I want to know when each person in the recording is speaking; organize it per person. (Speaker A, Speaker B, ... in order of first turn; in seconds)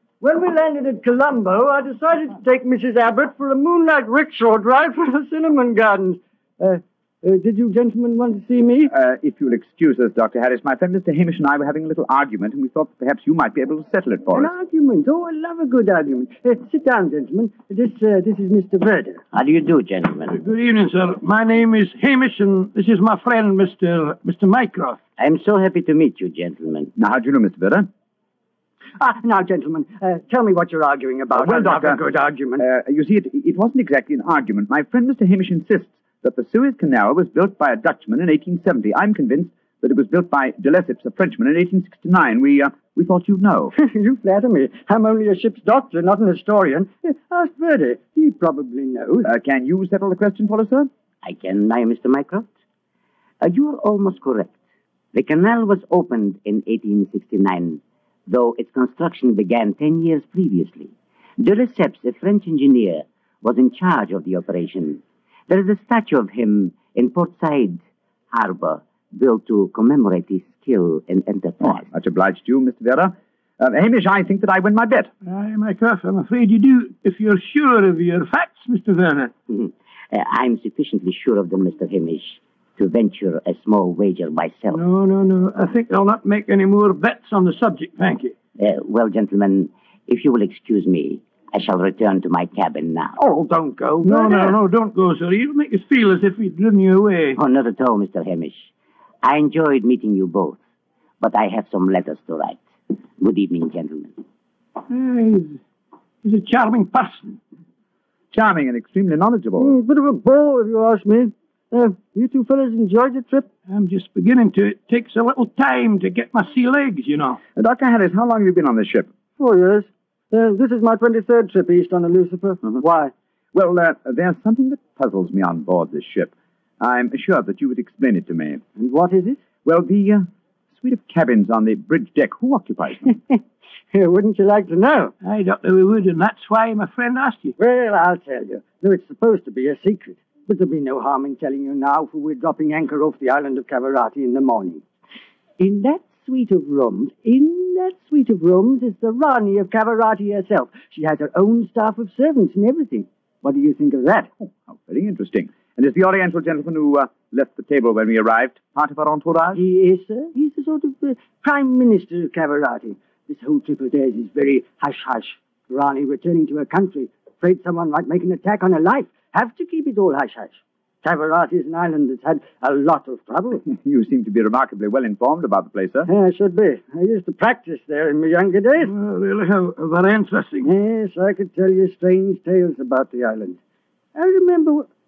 Speaker A: 0.2-8.9, 14.3-19.2, 29.0-32.6, 43.7-49.3, 93.2-94.6, 109.6-113.5, 119.4-123.1, 128.8-129.4, 133.1-133.4, 133.9-135.1, 137.6-144.8, 145.6-154.3, 159.5-173.6, 176.0-178.9, 180.6-183.6, 184.1-184.9
Speaker B: 8.9-14.5, 26.9-27.9, 31.3-32.0, 32.6-43.7, 49.2-50.9, 71.6-75.1, 108.3-109.7, 117.5-119.1, 123.5-128.6, 129.6-133.1, 154.4-159.6, 173.7-176.1
Speaker C: 19.3-20.3, 25.2-26.9, 51.2-52.5, 53.4-54.5, 55.1-67.8, 68.3-71.9, 79.5-84.8, 88.6-93.1, 97.4-98.7, 99.2-100.6, 101.2-102.6, 103.2-104.2
Speaker D: 20.3-25.0, 75.2-79.3, 84.7-88.3, 94.0-97.4, 104.9-105.6, 106.2-107.4, 113.7-117.4, 135.2-137.5, 178.8-180.7